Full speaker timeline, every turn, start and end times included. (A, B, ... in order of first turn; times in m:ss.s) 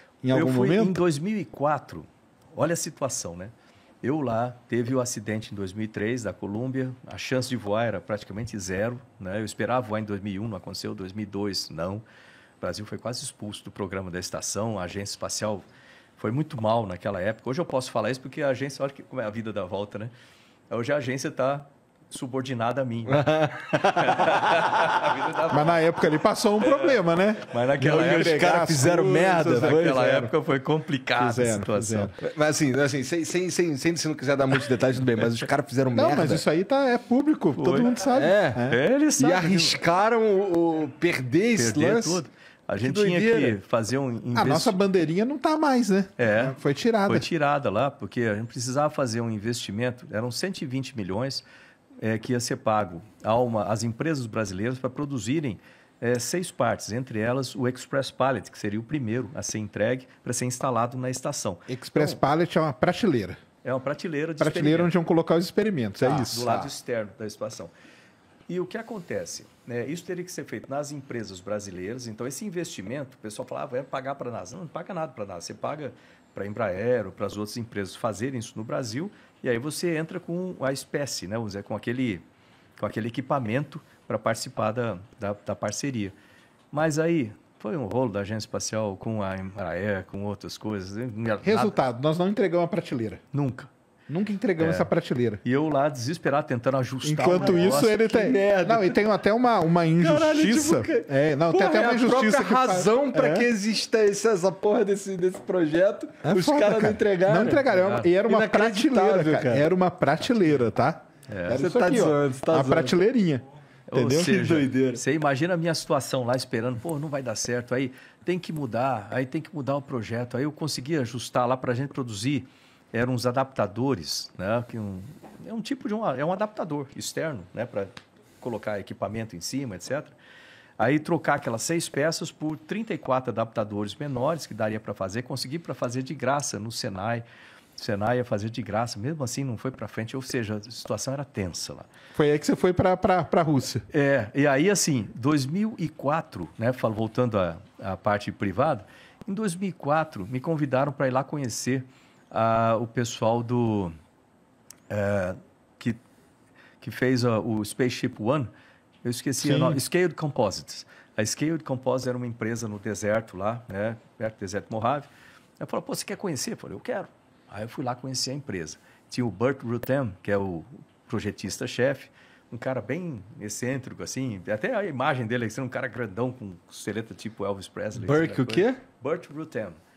0:00.2-0:01.0 A
0:00.3-0:12.0 B
0:12.6-0:15.6 B
0:16.2-0:20.1 B
0:20.7-0:25.8 B
0:23.1-0:24.7 C
0:25.5-0:29.8 A
0:26.6-0:28.5 B
0:27.8-0:30.3 C
0:29.5-0:32.2 B
0:31.2-0:32.2 A
0:32.2-0:36.4 C
0:35.9-0:38.8 A
0:37.6-0:38.0 B
0:38.1-0:38.6 C
0:38.7-0:39.8 B
0:39.2-0:42.2 C
0:41.6-0:44.8 B
0:42.8-0:43.6 C
0:44.3-0:47.3 A
0:46.2-0:46.6 B
0:47.1-0:51.4 B
0:52.0-1:02.2 B
1:01.7-1:03.4 A
1:03.6-1:04.9 B
1:04.4-1:06.7 A
1:06.0-1:07.7 B
1:08.5-1:22.2 B
1:22.8-1:26.1 B
1:26.7-1:31.8 B
1:31.4-1:33.2 A
1:33.3-1:33.7 B
1:34.1-1:35.4 A
1:34.6-1:34.9 B
1:35.4-1:38.1 B
1:37.0-1:43.5 A
1:37.2-1:39.0 C
1:40.0-1:47.7 C
1:46.2-1:54.5 A
1:47.7-1:48.1 B
1:48.3-1:49.7 C
1:51.3-1:51.6 B
1:51.6-1:53.0 C
1:53.9-2:10.2 B
1:54.3-1:55.0 C
2:10.8-2:17.2 B
2:17.8-2:21.9 B
2:22.2-2:23.9 A
2:23.9-2:33.9 B
2:34.9-2:36.0 B
2:36.8-2:38.5 B
2:39.0-2:45.1 B
2:39.4-2:39.8 A
2:45.6-2:59.8 B
2:58.0-2:58.8 C